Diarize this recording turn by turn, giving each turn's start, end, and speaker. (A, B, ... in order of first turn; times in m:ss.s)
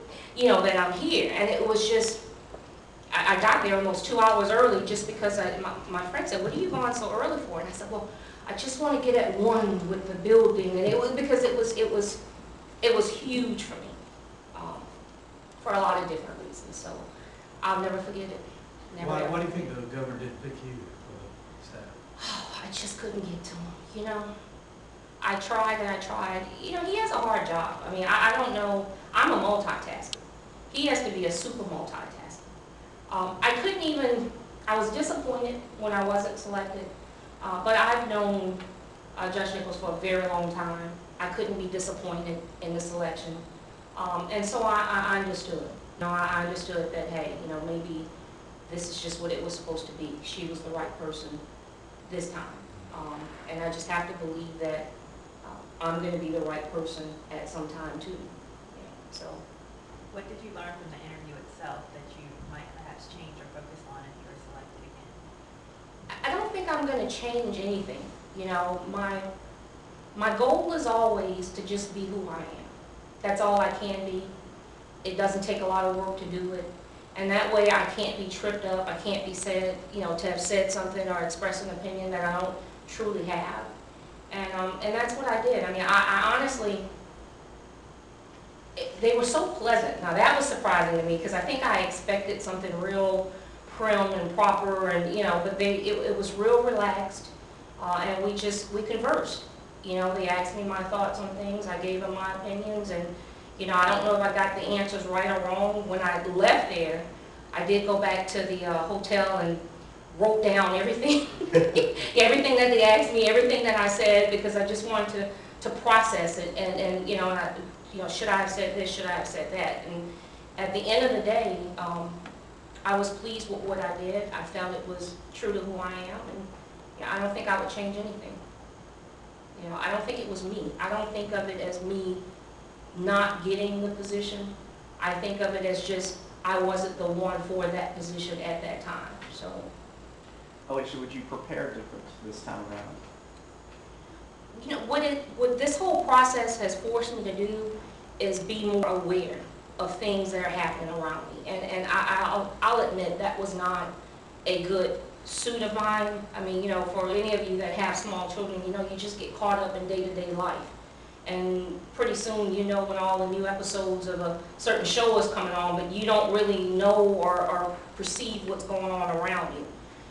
0:00.3-0:02.2 A
0:03.1-0:12.2 A
0:12.8-0:14.0 A
0:14.5-0:14.9 A
0:15.6-0:17.0 A
0:17.6-0:19.7 A
0:19.0-0:22.0 B
0:22.2-0:24.3 A
0:25.2-0:32.4 A
0:33.1-0:36.9 A
0:37.4-0:38.6 A
0:39.2-0:43.4 A
0:43.9-0:48.1 A
0:48.7-0:51.4 A
0:52.0-0:54.9 A
0:55.4-0:59.4 A
1:00.1-1:05.2 C
1:06.2-1:09.3 A
1:10.1-1:14.3 A
1:15.0-1:23.7 A
1:24.3-1:26.8 A
1:28.8-2:00.0 A
2:00.6-2:02.2 A
2:02.8-2:08.4 A
2:09.5-2:12.2 A
2:12.9-2:19.7 A
2:20.7-2:23.0 D
2:24.5-2:33.9 A
2:34.4-2:40.7 A
2:41.2-2:49.7 A